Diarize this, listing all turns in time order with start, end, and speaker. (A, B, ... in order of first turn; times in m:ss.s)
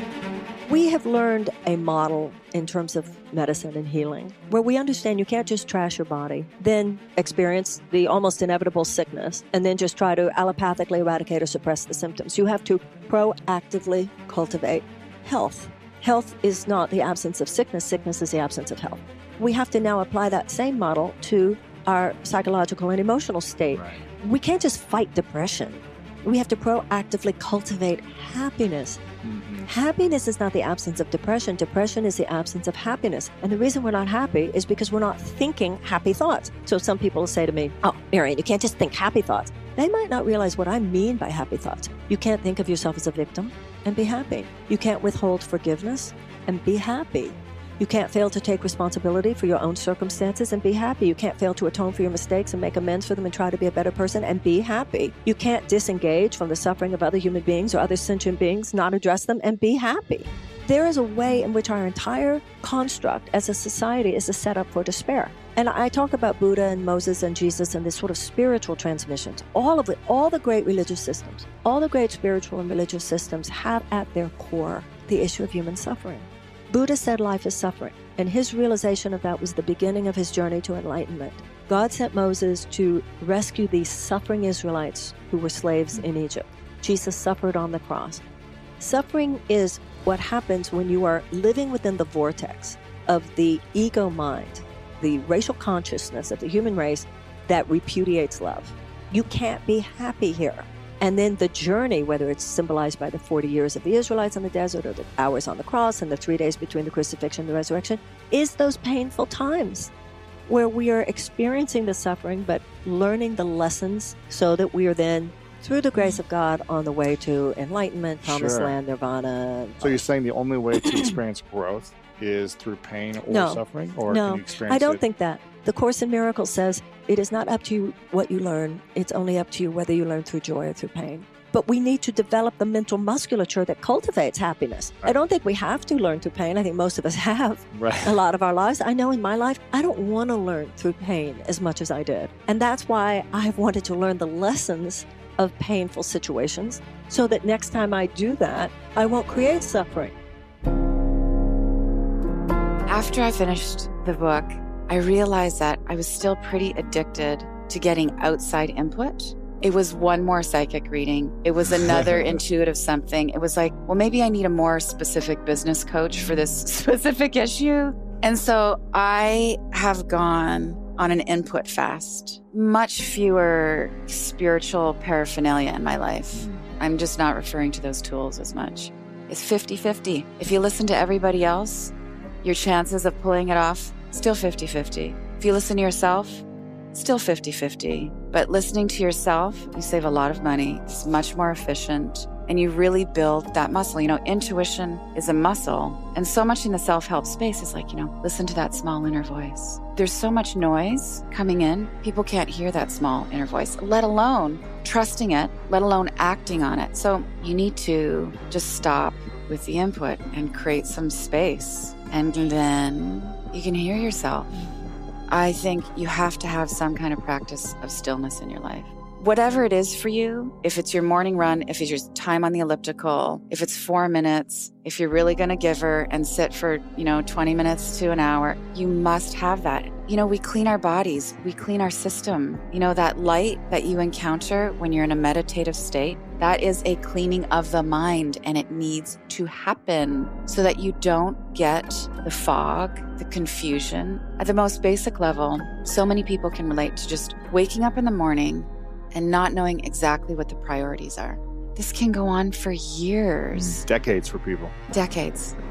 0:00.7-0:29.0 A
0:23.7-0:24.0 B
0:29.2-0:29.7 B
0:29.7-1:28.2 A
1:28.8-1:49.9 A
1:50.5-2:00.0 A
1:55.9-1:56.2 B
1:58.2-1:58.8 B
1:59.8-2:05.0 B
2:00.8-2:01.1 A
2:03.3-2:30.1 A
2:17.7-2:18.2 B
2:32.9-3:34.6 C
2:41.7-2:42.4 B
3:35.3-4:13.8 C
4:13.5-4:14.7 B
4:14.9-4:15.6 C